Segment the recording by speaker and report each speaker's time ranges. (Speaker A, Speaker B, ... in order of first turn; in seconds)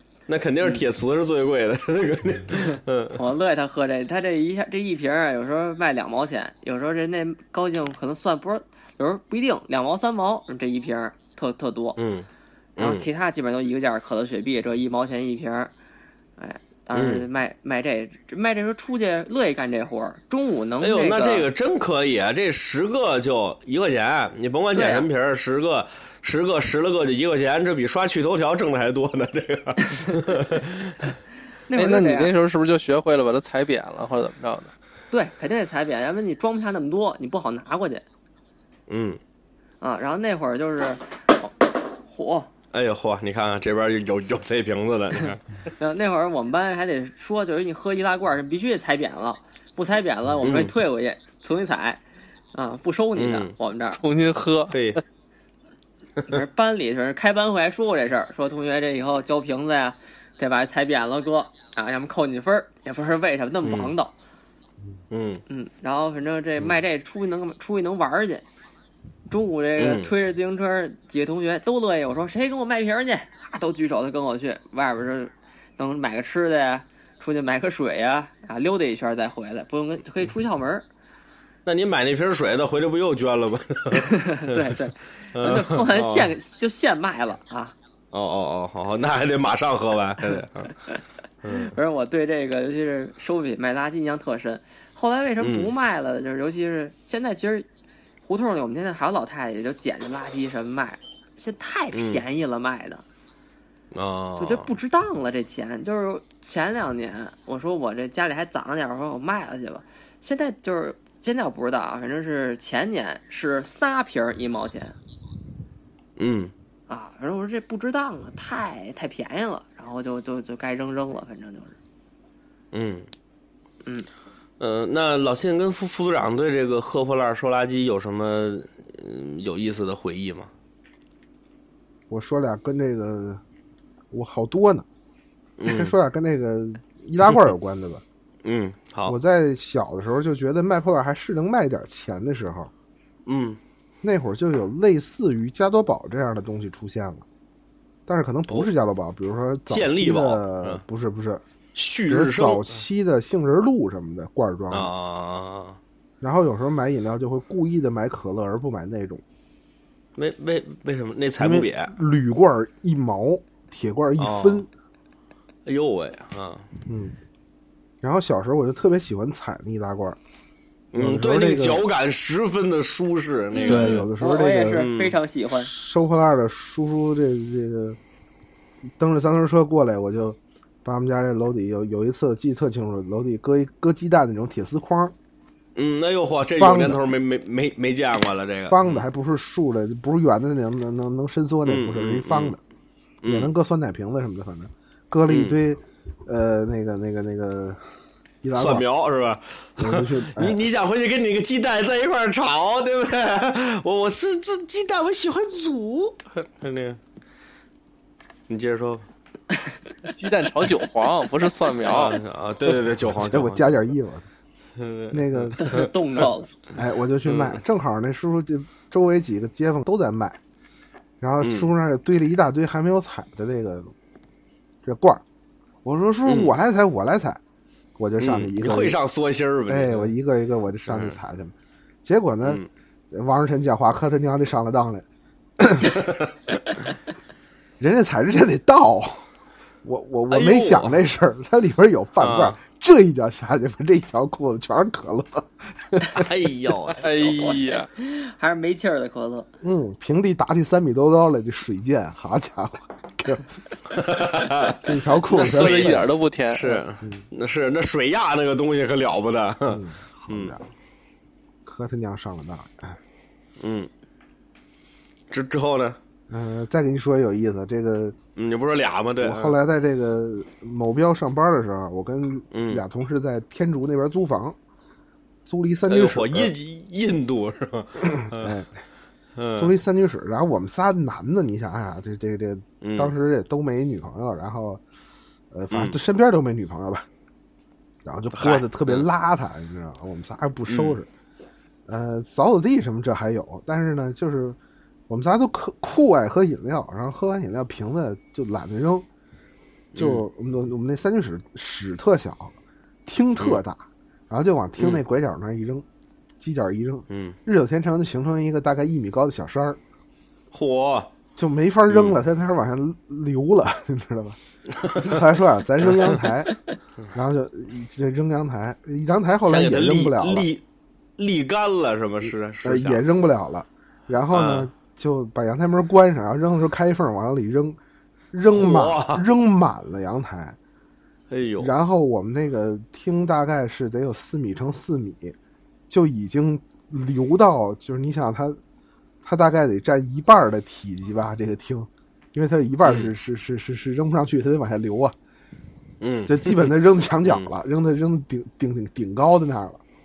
Speaker A: 0.3-3.2, 11.9-13.1, 16.9-17.2, 20.8-30.9, 38.9-39.2, 42.7-45.4, 50.4-50.7, 53.1-53.5, 54.7-55.0, 63.6-63.9, 65.1-65.4, 69.8-70.1, 81.6-84.8, 85.3-86.3, 88.1-90.7, 91.4-91.8, 95.4-95.7, 101.9-102.2, 103.9-104.7, 116.2-116.5, 122.7-123.1, 124.6-130.5, 135.6-135.9, 138.4-139.2, 143.2-143.6, 149.7-150.8, 151.8-152.8, 154.7-155.8, 160.2-161.9, 164.2-164.7, 165.7-166.7, 170.9-174.1, 174.8-175.2, 185.8-189.0, 191.7-192.6, 193.2-193.5, 195.3-195.6, 198.5-207.0, 208.5-209.0, 211.9-213.8, 214.8-216.2, 217.2-217.6, 221.4-221.7, 226.2-226.5, 228.2-230.1, 230.8-231.2, 235.9-236.3, 240.3-241.0, 242.2-242.6, 246.1-247.1, 253.9-260.5, 263.6-263.9, 265.3-266.0, 268.4-269.6, 272.5-272.8, 275.9-278.6, 279.4-279.7, 282.8-283.1, 285.7-286.0, 288.3-289.1, 290.7-291.0, 299.9-300.2, 307.1-307.4, 310.5-311.1, 311.9-312.2, 314.8-315.2, 315.8-316.2, 319.5-320.6, 321.2-323.0, 324.3-324.7, 328.5-329.2, 331.3-331.7, 342.9-343.1, 346.0-346.7
Speaker B: 2.5-12.0, 12.8-15.7, 16.4-21.5, 24.7-25.1, 31.7-32.3, 35.1-38.0, 39.8-42.5, 45.8-52.0, 52.5-54.0, 56.2-64.1, 65.5-68.4, 69.3-80.8, 83.9-87.8, 90.3-97.7, 98.2-103.0, 104.4-115.0, 116.9-121.8, 173.5-175.7, 215.6-216.5, 247.1-249.5
Speaker C: 31.7-34.7, 53.9-55.0, 210.1-212.2, 247.0-247.9, 255.5-256.8
Speaker D: 132.1-133.4, 134.1-134.8, 135.6-138.0, 139.1-142.7, 144.0-147.2, 148.1-151.4, 152.1-154.9, 156.2-159.2, 161.4-164.7, 166.9-167.1, 168.0-170.2, 170.9-171.8, 173.6-174.9, 175.5-178.0, 179.0-185.1, 186.5-187.0, 188.7-192.6, 193.2-197.8, 198.4-198.8, 199.8-200.6, 213.2-214.2, 215.1-215.7, 216.8-220.4, 221.2-223.9, 224.8-225.2, 225.8-227.4, 228.0-229.0, 229.7-235.0, 235.6-236.0, 237.8-239.2, 239.8-246.3, 249.6-253.4, 254.8-256.0, 259.7-260.6, 261.6-263.0, 266.3-268.2, 269.2-274.6, 275.5-276.5, 278.3-278.7, 279.5-284.8, 285.5-287.1, 288.0-291.1, 291.9-294.6, 295.1-299.1, 299.9-305.9, 306.4-309.8, 311.4-314.4, 315.0-316.5, 317.1-320.5, 322.6-327.8, 328.3-330.6, 331.6-335.4, 335.9-338.6, 339.2-345.1, 346.3-349.8